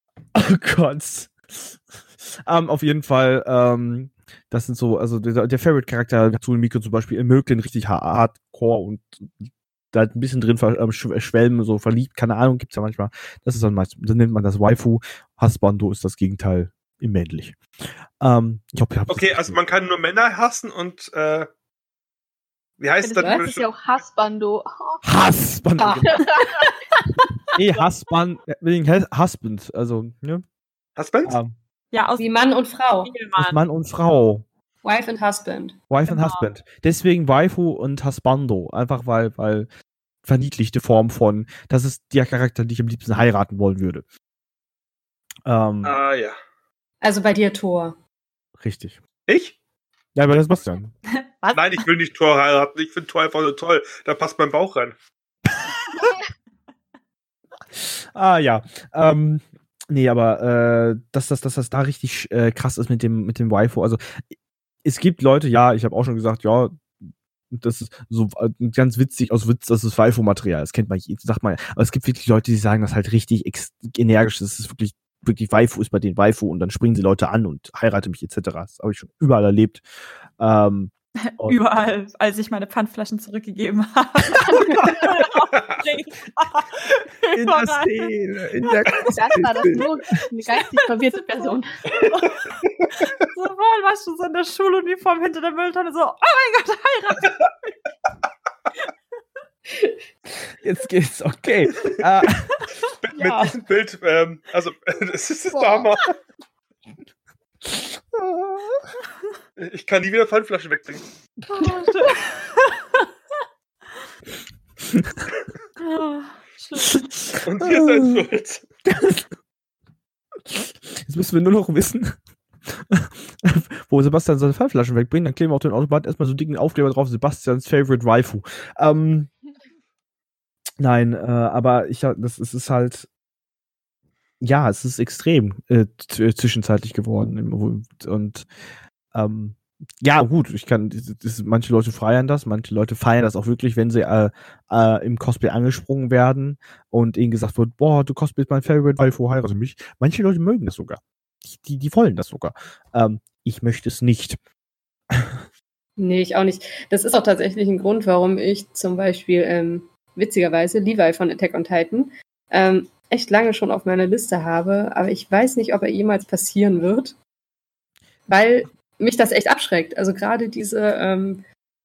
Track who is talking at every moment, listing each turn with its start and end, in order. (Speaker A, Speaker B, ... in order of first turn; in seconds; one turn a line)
Speaker A: 0.3-17.6
Speaker A: 18.2-19.6
Speaker B: 19.1-21.5
Speaker B: 22.8-23.7
Speaker C: 23.0-25.0
Speaker A: 25.0-26.3
Speaker D: 25.8-26.2
Speaker C: 26.1-26.7
Speaker A: 27.5-30.4
Speaker B: 31.0-31.4
Speaker A: 31.2-31.6
Speaker E: 31.9-32.2
Speaker D: 32.2-33.1
Speaker E: 33.0-33.6
Speaker A: 33.4-34.5
Speaker D: 34.8-35.8
Speaker A: 35.9-39.7
Speaker E: 36.1-36.5
Speaker A: 40.2-44.0
Speaker A: 45.5-46.0
Speaker B: 45.8-46.4
Speaker D: 47.0-48.0
Speaker A: 48.6-49.0
Speaker B: 49.3-49.5
Speaker A: 50.1-50.9
Speaker E: 51.3-51.8
Speaker B: 51.5-55.0
Speaker A: 57.7-64.2
Speaker A: 64.8-66.9
Speaker A: 67.5-79.8
Speaker A: 80.4-81.6
Speaker E: 81.3-89.0
Speaker A: 87.3-89.8
Speaker C: 89.1-91.8
Speaker E: 91.2-92.4
Speaker E: 93.0-97.3
Speaker A: 100.6-102.6
Speaker B: 103.0-106.1
Speaker A: 103.2-103.6
Speaker A: 107.7-108.9
Speaker B: 109.6-111.0
Speaker E: 111.6-113.1
Speaker A: 114.8-115.2
Speaker E: 115.8-117.0
Speaker A: 116.9-118.2
Speaker B: 117.4-118.7
Speaker A: 118.8-119.3
Speaker A: 120.5-129.3
Speaker A: 130.8-133.1
Speaker A: 134.4-138.5
Speaker A: 139.1-154.4
Speaker D: 156.0-167.2
Speaker D: 168.3-171.4